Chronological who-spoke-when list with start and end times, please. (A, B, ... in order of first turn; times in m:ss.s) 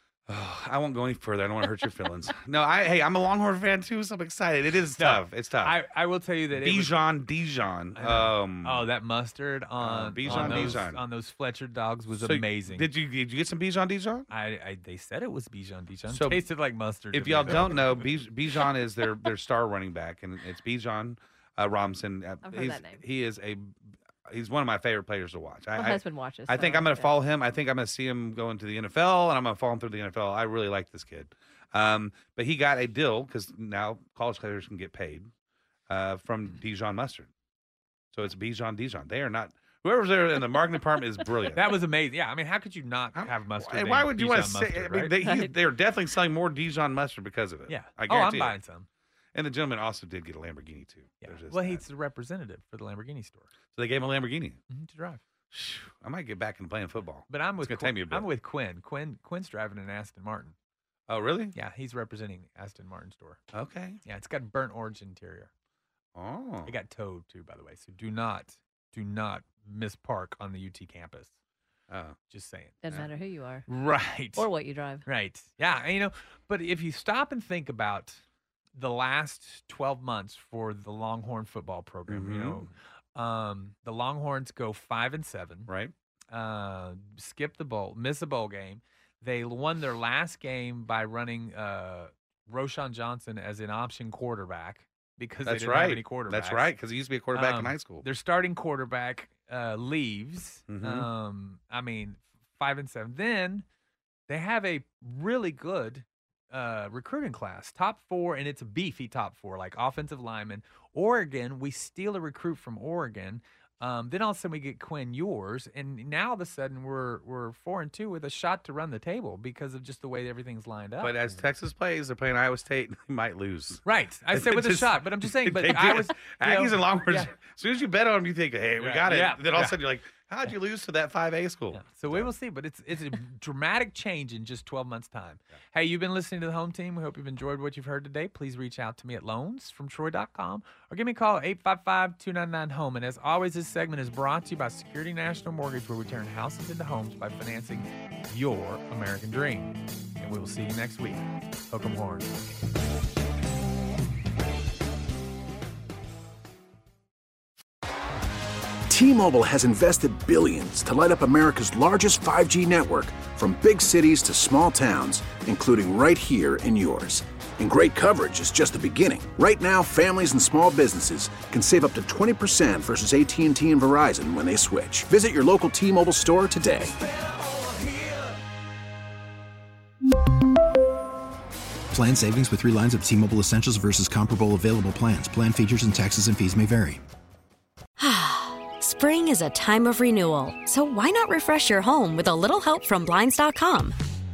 0:00.3-0:05.8 A
0:05.0-0:07.0 B
0:06.5-0:08.9 A
0:07.9-0:12.9 B
0:09.8-0:11.0 A
0:12.1-0:14.3 A
0:14.3-0:18.0 B
0:16.1-0:16.4 A
0:17.1-0:35.3 A
0:22.4-0:23.0 C
0:25.8-0:27.1 C
0:35.9-0:37.3 A
0:38.1-0:41.8 A
0:41.5-0:45.1 B
0:43.2-0:48.6 A
0:45.2-0:45.5 C
0:47.7-0:48.9 B
0:49.3-0:51.8 A
0:51.2-0:53.5 B
0:53.7-0:54.6 A
0:54.7-0:55.2 B
0:55.5-0:58.3 A
0:57.3-1:00.5 B
1:01.1-1:01.5 A
1:01.5-1:03.4 B
1:03.5-1:04.0 A
1:04.0-1:05.5 B
1:06.1-1:06.7 A
1:06.6-1:11.3 B
1:11.9-1:12.2 A
1:12.3-1:12.8 B
1:12.8-1:13.7 C
1:13.7-1:14.5 B
1:14.4-1:15.0 C
1:15.0-1:18.2 B
1:18.8-1:25.7 B
1:22.1-1:22.7 A
1:25.7-1:25.9 A
1:26.3-1:36.7 B
1:35.4-1:38.0 A
1:37.3-1:43.6 B
1:40.7-1:41.1 A
1:44.3-2:01.1 B
2:01.0-2:12.3 A
2:03.8-2:07.3 B
2:08.8-2:09.8 B
2:11.7-2:32.3 B
2:38.9-2:57.0 D
3:01.9-3:07.0 E
3:08.0-3:13.9 F